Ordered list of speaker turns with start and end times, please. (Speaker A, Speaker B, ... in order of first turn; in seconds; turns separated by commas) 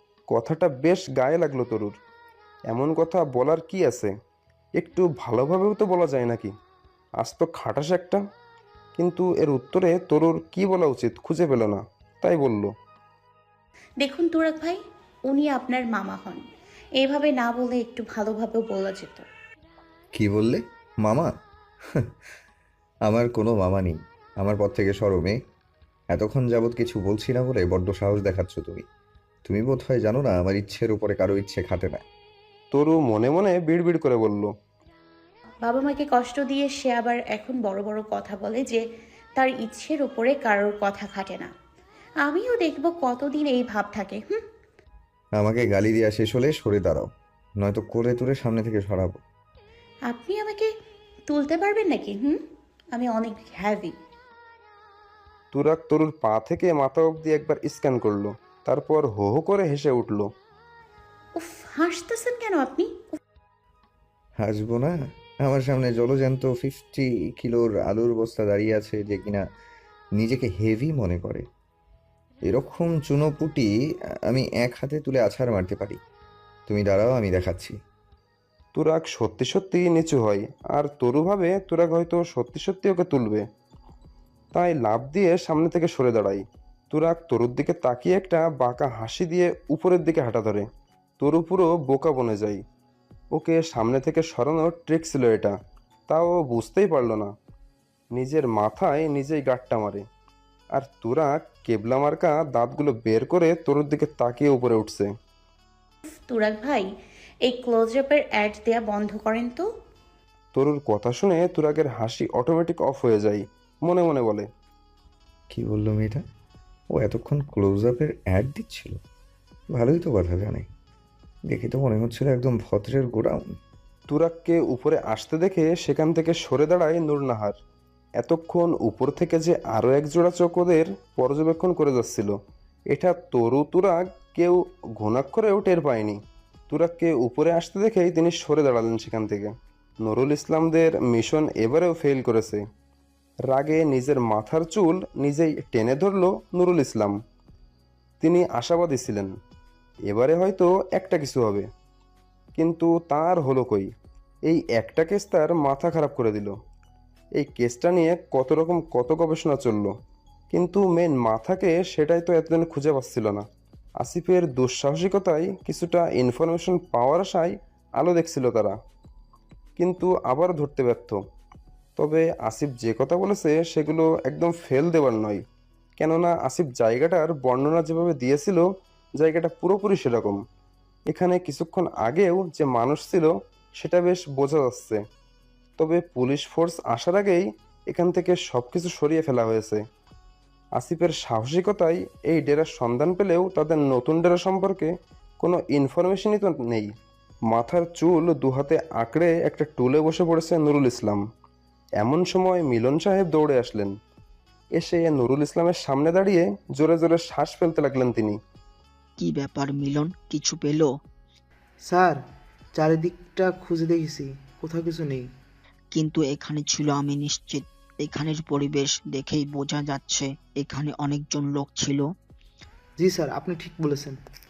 Speaker A: 0.3-1.9, Speaker A: 2.7-4.1, Speaker A: 4.8-6.5, Speaker A: 7.2-8.2, Speaker A: 9.0-12.7, Speaker B: 14.0-14.8, Speaker B: 15.3-16.4, Speaker B: 17.0-19.2, Speaker C: 20.1-21.3, Speaker C: 23.1-25.4, Speaker C: 26.1-28.8, Speaker C: 29.4-32.0, Speaker A: 32.7-34.5, Speaker B: 35.6-38.8, Speaker B: 39.4-41.5, Speaker B: 42.2-44.4, Speaker C: 45.4-47.1, Speaker C: 47.6-49.2, Speaker B: 50.1-50.7, Speaker B: 51.3-52.4, Speaker B: 52.9-53.9, Speaker A: 55.5-60.3, Speaker B: 61.4-63.2, Speaker C: 64.4-69.5, Speaker C: 70.2-71.5, Speaker C: 72.5-73.7, Speaker C: 74.3-76.0, Speaker C: 76.7-77.8, Speaker A: 78.8-83.5, Speaker A: 84.5-90.7, Speaker A: 91.2-92.6, Speaker A: 93.3-95.6, Speaker A: 96.1-97.3, Speaker A: 98.2-100.0, Speaker A: 100.8-105.1, Speaker B: 106.3-106.8, Speaker B: 107.5-109.7, Speaker A: 110.5-114.5, Speaker C: 115.5-116.2, Speaker C: 116.9-119.0, Speaker C: 119.7-120.7, Speaker C: 121.5-123.6, Speaker A: 124.1-127.6, Speaker A: 128.2-132.4, Speaker A: 132.9-139.5, Speaker A: 140.0-142.6, Speaker A: 143.5-147.2, Speaker A: 148.2-149.3, Speaker A: 150.1-151.7, Speaker A: 152.6-153.9, Speaker A: 154.5-156.6, Speaker A: 157.4-159.9, Speaker A: 160.5-163.4, Speaker A: 164.0-168.8, Speaker A: 169.8-171.2, Speaker A: 172.0-175.4, Speaker A: 176.0-178.7, Speaker A: 179.2-180.4, Speaker A: 181.1-185.0, Speaker A: 185.8-189.8, Speaker A: 190.8-196.9, Speaker A: 197.5-201.2, Speaker A: 202.0-203.9, Speaker A: 204.8-208.4, Speaker D: 209.2-210.9, Speaker E: 211.8-212.2, Speaker E: 212.8-215.3, Speaker D: 215.9-222.1, Speaker E: 223.0-224.2